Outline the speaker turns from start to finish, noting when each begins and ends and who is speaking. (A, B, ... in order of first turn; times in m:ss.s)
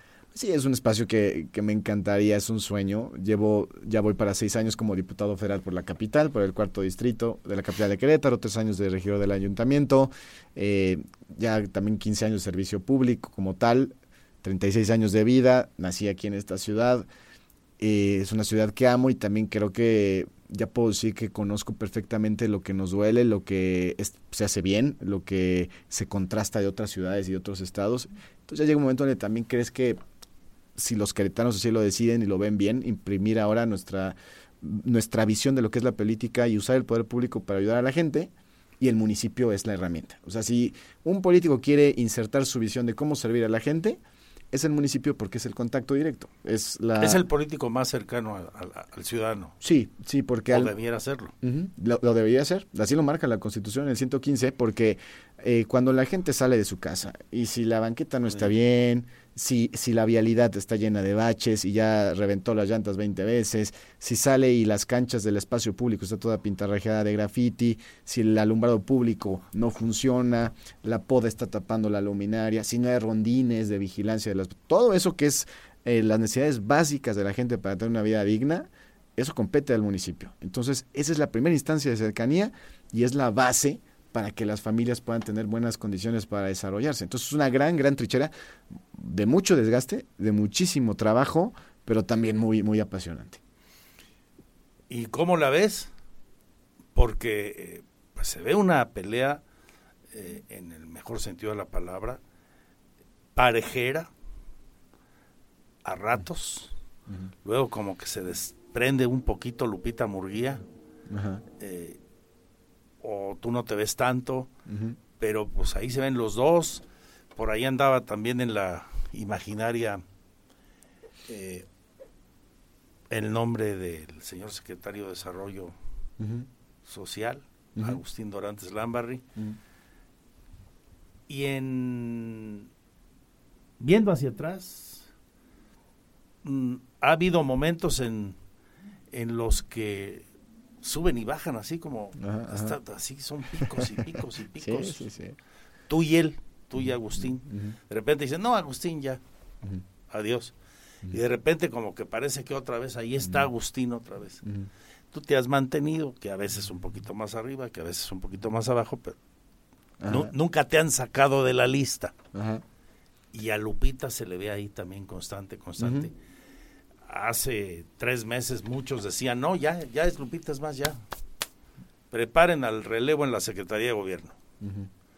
0:00.3-0:17.1 A
0:17.8-0:30.0 A
0:30.8-0:44.0 A
0:44.5-0:47.2 A
0:47.0-0:49.5 B
0:49.6-0:50.7 A
0:50.5-0:51.3 B
0:51.4-1:28.3 A
1:28.9-1:33.4 A
1:34.9-1:35.9 B
1:37.0-1:39.4 B
1:40.1-1:42.2 B
1:43.3-1:44.1 B
1:45.8-1:46.7 B
1:47.4-1:50.6 B
1:51.1-1:51.4 A
1:51.6-1:52.0 B
1:53.0-1:54.5 B
1:54.7-1:55.0 A
1:55.2-1:56.8 B
1:57.4-2:00.0 B
2:01.3-2:01.6 B
2:03.1-2:05.7 B
2:06.2-2:06.5 A
2:06.8-2:09.2 B
2:11.3-2:12.7 B
2:13.8-2:15.1 B
2:16.4-2:18.4 B
2:19.1-2:20.2 B
2:20.8-2:25.1 B
2:22.2-2:22.8 A
2:23.8-2:24.0 A
2:24.6-2:25.3 A
2:25.9-2:29.2 B
2:26.8-2:27.7 A
2:30.1-2:30.5 B
2:31.1-2:34.4 B
2:35.1-2:39.2 B
2:40.0-2:40.3 A
2:40.1-2:42.1 B
2:42.3-2:42.6 A
2:43.3-2:46.1 B
2:45.8-2:46.1 A
2:47.0-2:51.0 B
2:52.1-2:54.4 B
2:54.6-2:54.9 A